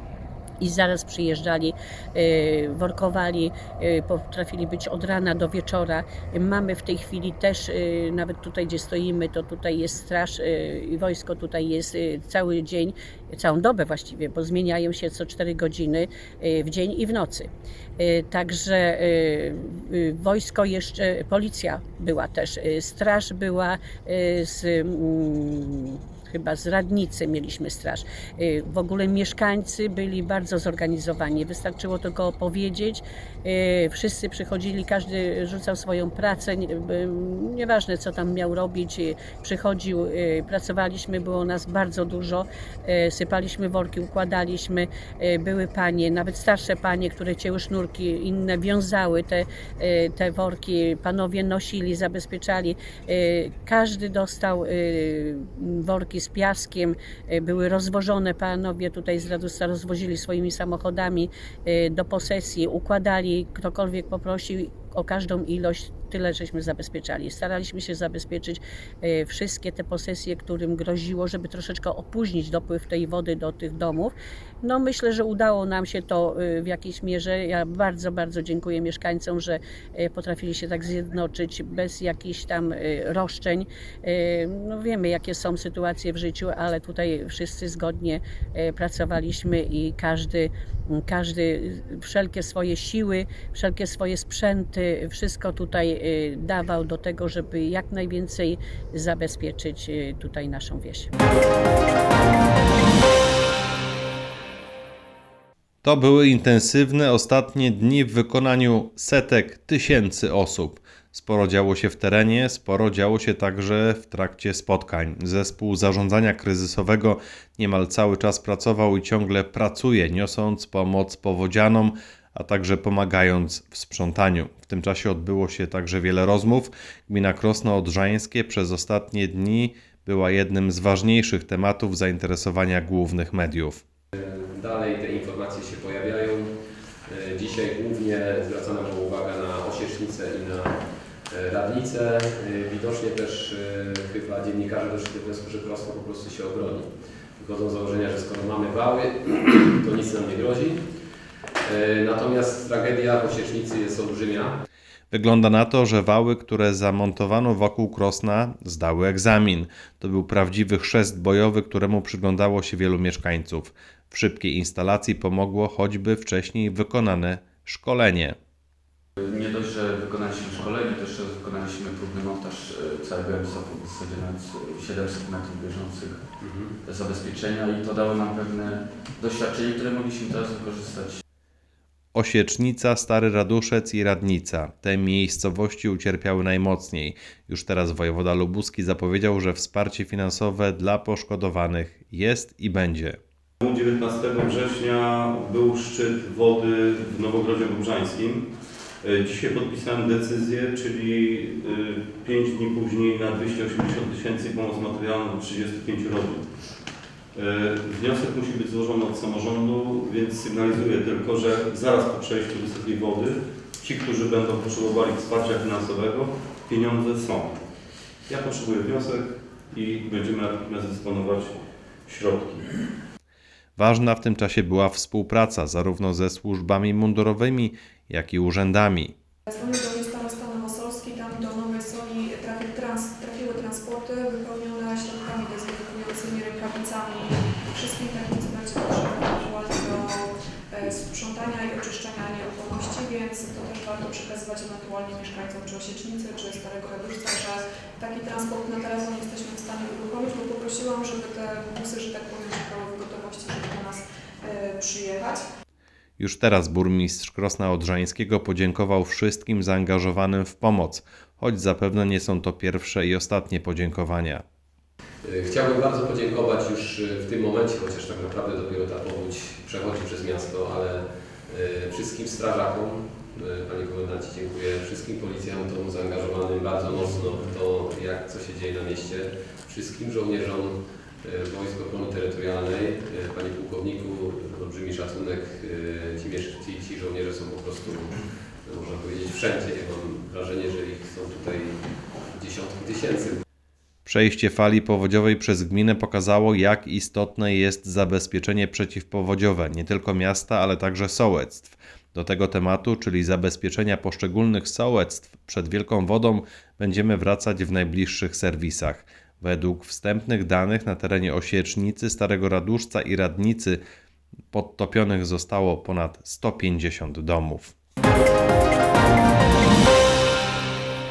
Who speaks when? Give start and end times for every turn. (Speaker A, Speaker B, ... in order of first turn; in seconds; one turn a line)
Speaker A: 0.6-101.1
Speaker B: 105.8-133.8
Speaker C: 134.1-136.5
Speaker C: 137.1-150.9
Speaker C: 151.6-154.6
Speaker B: 155.1-168.4
Speaker D: 169.2-176.3
Speaker C: 176.4-176.8
Speaker D: 176.8-181.2
Speaker B: 182.1-193.2
Speaker E: 193.6-198.5
Speaker E: 199.0-206.5
Speaker E: 207.3-217.6
Speaker E: 218.3-222.7
Speaker B: 223.8-229.1
Speaker F: 229.5-255.4
Speaker B: 256.2-264.4
Speaker C: 265.2-293.4
Speaker B: 294.1-313.8
Speaker B: 314.5-317.7